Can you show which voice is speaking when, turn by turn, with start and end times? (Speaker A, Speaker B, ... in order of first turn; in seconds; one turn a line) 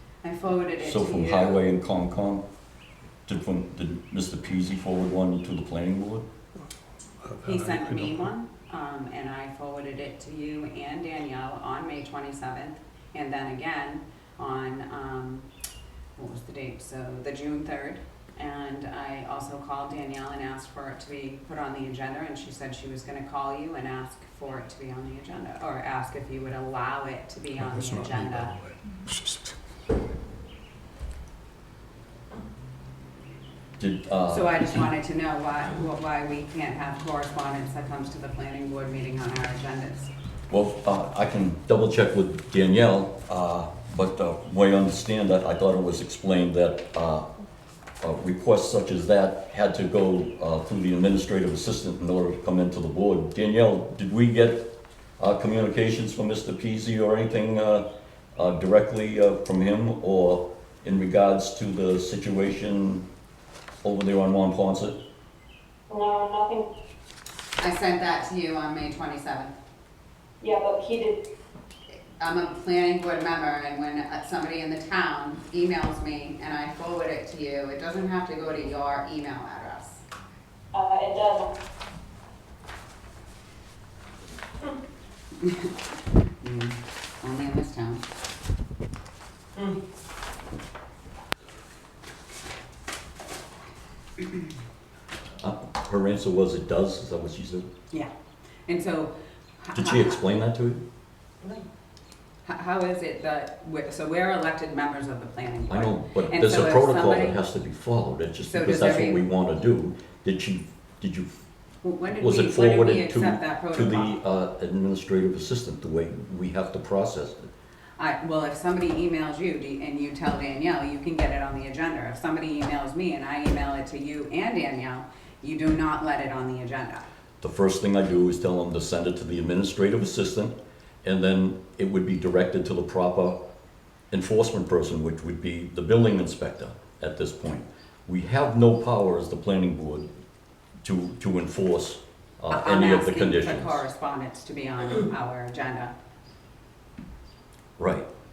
Speaker A: 0.2-1.6
Speaker B: 0.8-2.4
Speaker B: 3.3-6.2
Speaker C: 7.2-8.3
Speaker A: 7.4-15.5
Speaker A: 16.2-28.5
Speaker C: 27.6-29.6
Speaker B: 33.8-34.9
Speaker A: 34.3-40.1
Speaker B: 40.5-47.3
Speaker B: 48.0-54.7
Speaker B: 55.2-57.8
Speaker B: 58.4-63.0
Speaker B: 63.8-65.0
Speaker D: 65.9-66.7
Speaker A: 67.6-69.5
Speaker D: 70.4-71.2
Speaker A: 72.2-80.0
Speaker D: 80.7-81.5
Speaker A: 86.4-88.0
Speaker B: 95.4-97.7
Speaker A: 98.7-100.2
Speaker B: 99.7-100.8
Speaker A: 102.4-107.4
Speaker B: 105.7-111.4
Speaker A: 108.4-109.2
Speaker A: 111.8-114.2
Speaker B: 112.1-117.5
Speaker A: 118.0-127.1
Speaker B: 127.4-133.4
Speaker B: 134.1-140.1
Speaker B: 140.8-143.8
Speaker A: 142.5-145.9
Speaker B: 147.8-148.1